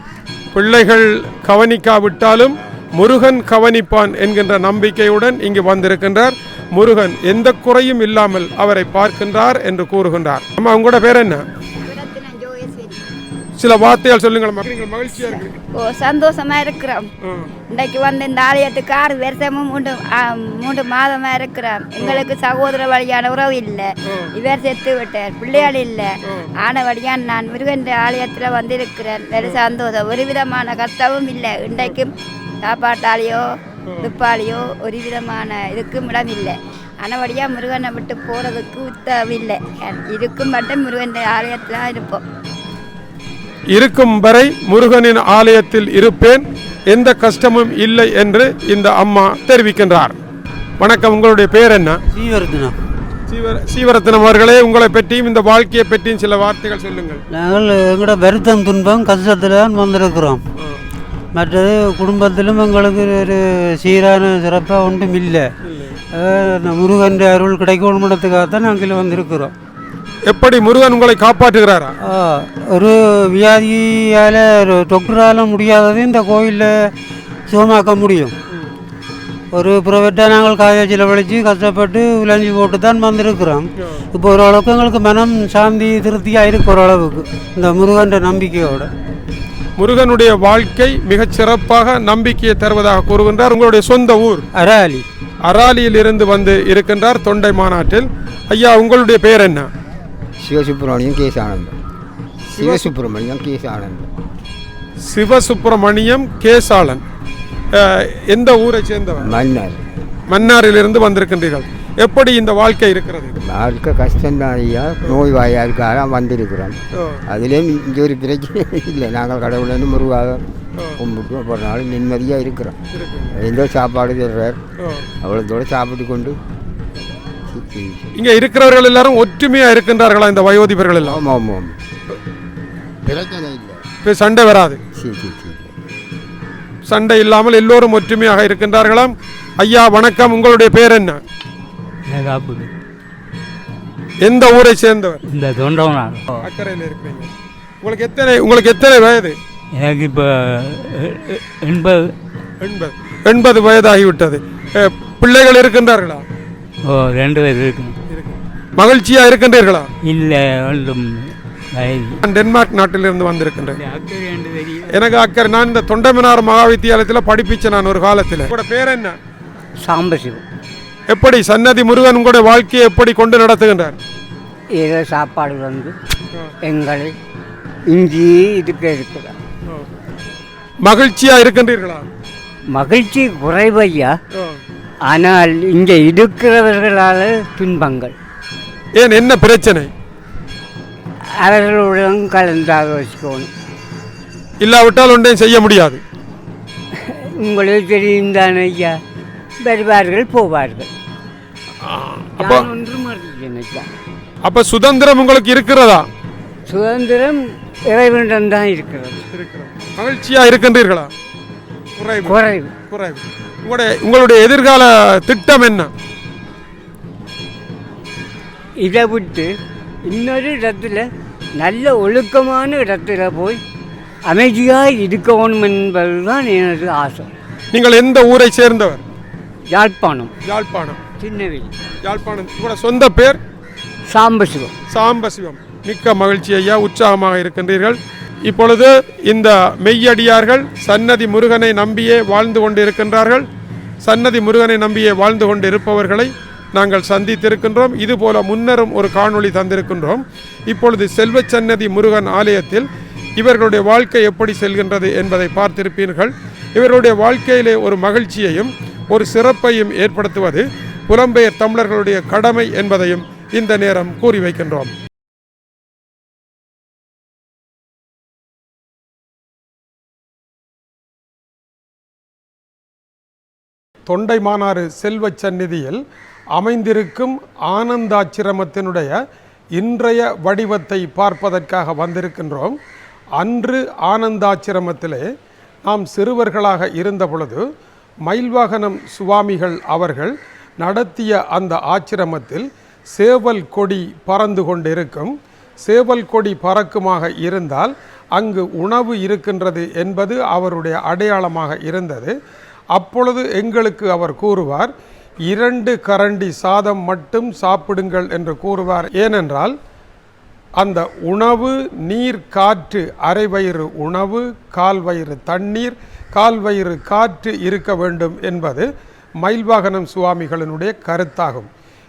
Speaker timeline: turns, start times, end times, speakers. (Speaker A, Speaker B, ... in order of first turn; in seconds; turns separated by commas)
Speaker A: 0.5-11.4, Speaker B: 11.8-13.0, Speaker A: 13.6-15.6, Speaker B: 15.1-17.1, Speaker A: 17.3-17.5, Speaker B: 17.7-33.5, Speaker A: 22.0-22.2, Speaker A: 25.5-26.5, Speaker B: 34.0-42.2, Speaker A: 43.7-50.2, Speaker A: 50.8-52.0, Speaker C: 52.1-52.7, Speaker A: 53.3-57.2, Speaker C: 57.3-60.4, Speaker C: 61.3-65.5, Speaker A: 65.7-66.0, Speaker C: 66.1-69.5, Speaker A: 70.3-72.0, Speaker C: 72.0-76.9, Speaker C: 77.5-78.3, Speaker C: 79.5-88.9, Speaker A: 89.8-94.5, Speaker C: 94.5-95.1, Speaker A: 95.5-99.7, Speaker D: 100.4-101.8, Speaker D: 102.5-104.1, Speaker A: 102.5-102.9, Speaker A: 105.1-107.0, Speaker A: 107.8-109.3, Speaker D: 109.2-109.8, Speaker A: 110.3-113.4, Speaker D: 113.4-120.4, Speaker A: 117.0-117.2, Speaker D: 121.0-122.8, Speaker A: 122.9-123.3, Speaker D: 123.3-124.6, Speaker D: 125.2-126.4, Speaker D: 127.5-128.2, Speaker A: 128.1-131.2, Speaker D: 131.0-131.8, Speaker D: 133.1-133.8, Speaker A: 134.0-134.8, Speaker D: 134.9-135.7, Speaker A: 136.9-141.2, Speaker E: 142.1-142.7, Speaker A: 144.2-145.2, Speaker E: 145.3-146.3, Speaker A: 146.4-147.3, Speaker A: 147.8-149.4, Speaker E: 149.8-152.1, Speaker A: 152.6-156.3, Speaker E: 156.9-158.0, Speaker A: 158.1-159.9, Speaker E: 160.1-162.2, Speaker A: 162.2-163.8, Speaker E: 163.8-164.9, Speaker A: 164.9-169.2, Speaker F: 169.8-170.4, Speaker A: 171.1-174.0, Speaker F: 174.8-175.9, Speaker F: 176.7-177.2, Speaker F: 177.9-179.3, Speaker A: 180.8-182.1, Speaker F: 182.8-184.1, Speaker F: 185.1-188.1, Speaker A: 189.0-189.9, Speaker F: 191.4-193.5, Speaker A: 194.6-196.0, Speaker F: 197.4-198.9, Speaker F: 199.6-200.9, Speaker A: 201.8-202.7, Speaker F: 202.4-203.9, Speaker A: 204.4-206.1, Speaker F: 206.7-207.4, Speaker F: 207.9-209.2, Speaker A: 209.3-211.1, Speaker A: 212.0-212.4, Speaker F: 212.2-212.7, Speaker A: 212.9-215.9, Speaker F: 218.8-219.5, Speaker F: 220.1-221.1, Speaker F: 221.6-223.6, Speaker F: 224.3-227.3, Speaker A: 227.7-229.0, Speaker F: 229.7-230.3, Speaker A: 230.4-231.0, Speaker F: 231.2-231.7, Speaker A: 232.0-233.4, Speaker F: 234.1-234.7, Speaker A: 234.9-243.5, Speaker A: 244.1-264.9, Speaker A: 274.1-276.0, Speaker A: 276.6-279.1, Speaker A: 279.8-282.8, Speaker A: 283.4-285.2, Speaker A: 285.9-287.6, Speaker A: 288.3-302.3, Speaker A: 302.9-304.9, Speaker A: 305.5-309.8, Speaker A: 310.8-318.9, Speaker A: 319.4-321.7